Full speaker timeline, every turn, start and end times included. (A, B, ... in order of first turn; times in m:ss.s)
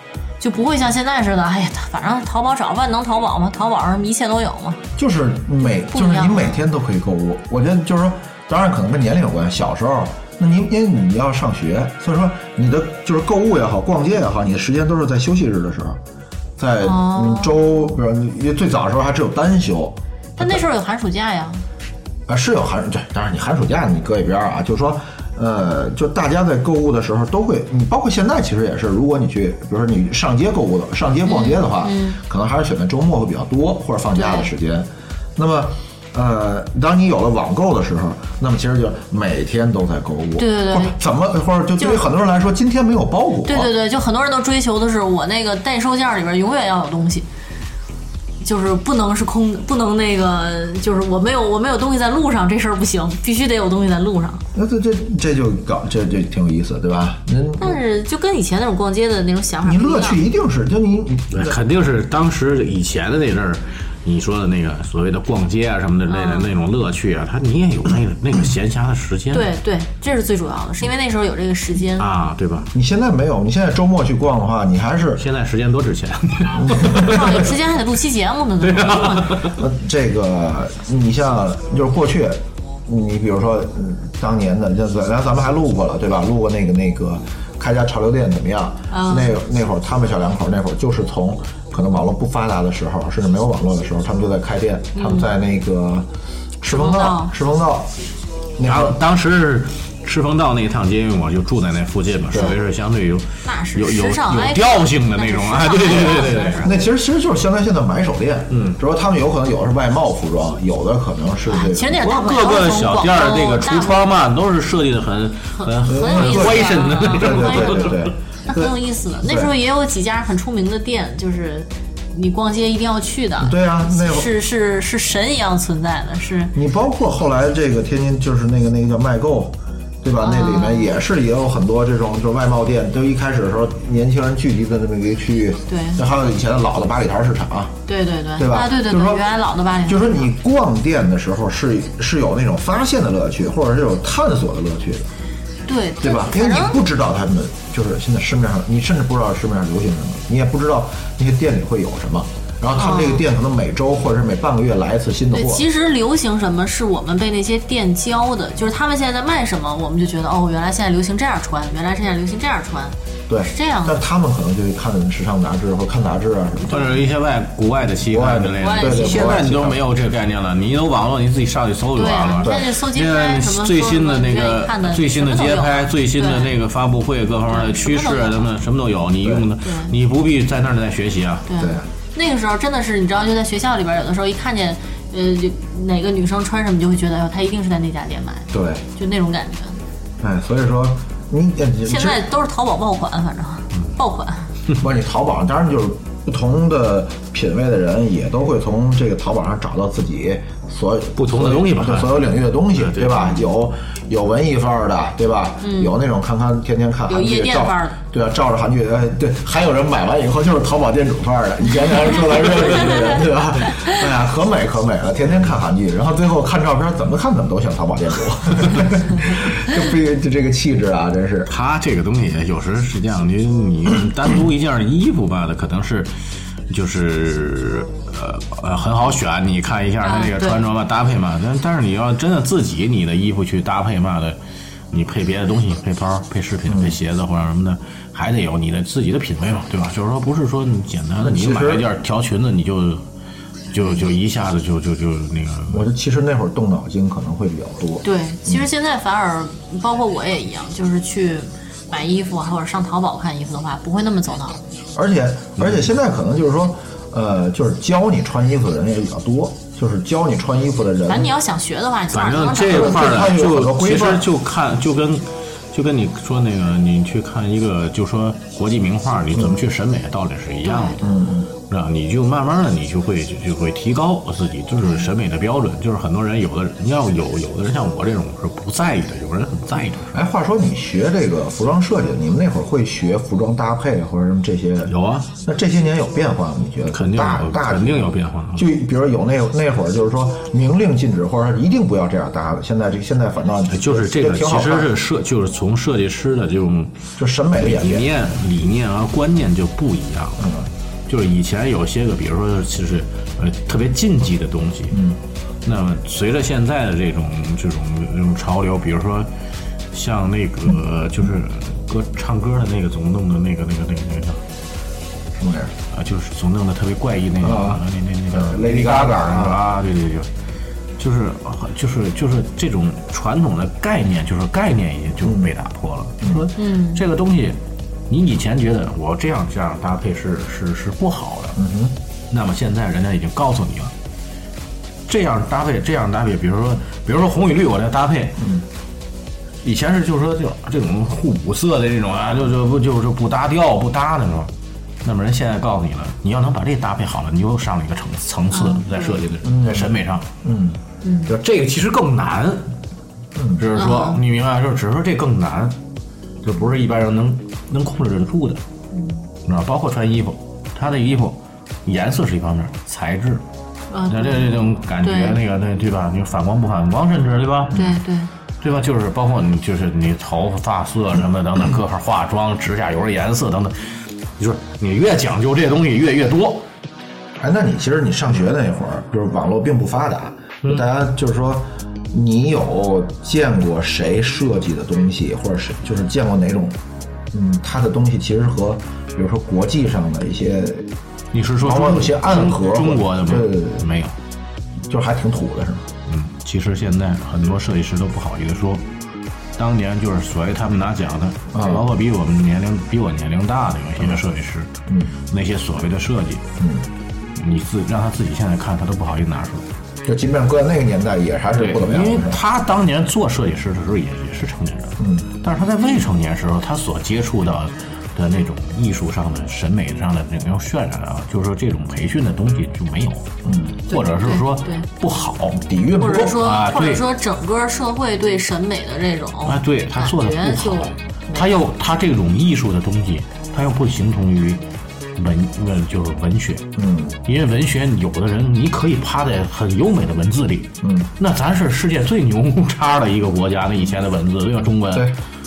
0:00.4-0:04.8 A
0:05.0-0:16.0 B
0:05.9-0:06.6 A
0:16.6-0:20.6 B
0:16.8-0:17.9 A
0:20.4-0:21.6 A
0:22.3-0:43.7 B
0:31.2-0:32.2 A
0:34.2-0:34.5 A
0:40.4-0:41.0 A
0:41.8-0:42.1 A
0:43.4-0:47.3 A
0:48.4-0:54.4 A
0:54.5-0:57.8 B
0:57.6-1:00.2 A
0:59.6-1:01.6 B
1:01.3-1:09.5 C
1:06.1-1:06.5 A
1:09.3-1:12.1 A
1:12.0-1:12.7 C
1:12.7-1:15.2 B
1:15.2-1:17.2 C
1:16.5-1:17.5 B
1:16.9-1:19.4 A
1:18.6-1:19.6 C
1:19.5-1:36.1 B
1:28.9-1:29.4 A
1:35.0-1:35.3 A
1:36.6-1:37.9 B
1:36.7-1:37.3 A
1:38.6-1:39.0 B
1:38.6-1:46.7 C
1:43.4-1:46.8 A
1:46.6-1:52.0 B
1:48.5-1:48.8 C
1:51.5-1:54.1 A
1:52.0-1:58.1 C
1:55.5-2:06.5 A
1:55.8-1:58.7 B
1:59.3-1:59.5 B
2:03.4-2:04.3 B
2:06.5-2:17.7 B
2:10.2-2:11.0 A
2:15.7-2:16.0 A
2:17.9-2:20.2 A
2:18.4-2:19.3 B
2:19.8-2:25.1 B
2:25.7-2:26.8 A
2:26.0-2:35.6 B
2:32.8-2:33.2 A
2:35.3-2:44.0 A
2:43.3-2:47.0 B
2:46.6-3:01.5 C
2:48.1-2:49.8 B
2:48.6-2:49.4 A
2:52.0-2:56.6 A
2:57.5-2:58.5 A
2:59.6-2:59.9 A
3:01.5-3:09.8 A
3:01.6-3:01.9 B
3:08.5-3:08.8 B
3:10.2-3:12.2 B
3:11.8-3:14.5 A
3:14.8-3:41.5 B
3:21.2-3:23.2 C
3:23.2-3:23.4 A
3:25.6-3:26.0 A
3:27.1-3:28.0 A
3:41.5-3:46.1 C
3:46.7-3:54.4 C
3:50.0-3:50.6 A
3:54.9-4:03.0 C
3:56.7-3:57.0 B
4:01.2-4:01.9 B
4:03.7-4:05.9 C
4:05.7-4:08.7 B
4:08.0-4:14.6 A
4:14.9-4:21.3 B
4:15.6-4:15.9 C
4:21.1-4:23.4 A
4:22.1-4:31.0 C
4:22.7-4:24.3 B
4:30.6-4:31.1 A
4:31.0-4:31.5 B
4:31.7-4:40.1 C
4:40.1-4:54.9 B
4:44.9-4:45.3 C
4:46.9-4:48.7 C
4:53.7-4:57.0 C
4:57.2-4:58.1 B
4:57.5-5:00.5 C
5:00.4-5:00.7 B
5:01.1-5:05.0 C
5:04.9-5:05.2 B
5:05.6-5:09.3 C
5:09.9-5:14.4 C
5:15.4-5:15.7 B
5:15.9-5:20.3 C
5:17.4-5:19.6 B
5:21.0-5:27.6 C
5:25.2-5:25.5 B
5:26.2-5:26.5 B
5:26.6-5:27.0 A
5:28.1-5:31.6 C
5:31.6-5:32.0 B
5:32.3-5:33.9 C
5:35.1-5:38.4 C
5:38.4-5:38.6 B
5:39.6-5:44.5 C
5:45.0-5:50.3 C
5:48.5-5:49.2 A
5:49.4-5:49.9 B
5:50.4-5:50.8 B
5:51.0-5:51.3 A
5:51.3-5:52.7 C
5:53.4-5:53.6 B
5:53.6-5:55.8 C
5:53.8-5:54.2 A
5:56.4-5:58.6 C
5:58.9-5:59.2 A
5:59.4-6:03.4 C
6:03.9-6:05.4 A
6:04.1-6:07.8 C
6:07.7-6:08.3 A
6:08.6-6:16.7 C
6:17.4-6:26.8 B
6:27.3-6:30.9 B
6:31.3-6:34.1 C
6:31.6-6:33.9 B
6:34.9-6:35.9 B
6:36.1-6:38.8 C
6:39.6-6:44.7 C
6:41.5-6:41.9 B
6:44.9-6:45.2 B
6:45.3-6:46.5 C
6:46.6-6:46.9 B
6:47.4-6:49.7 C
6:50.0-6:52.4 B
6:51.5-7:03.3 C
6:55.0-6:55.3 B
7:03.4-7:03.8 B
7:03.9-7:05.6 C
7:03.9-7:04.9 A
7:05.5-7:06.4 B
7:06.0-7:11.5 A
7:06.2-7:07.1 C
7:09.4-7:14.6 C
7:15.2-7:16.7 C
7:16.8-7:17.2 B
7:17.2-7:25.1 C
7:20.8-7:21.1 B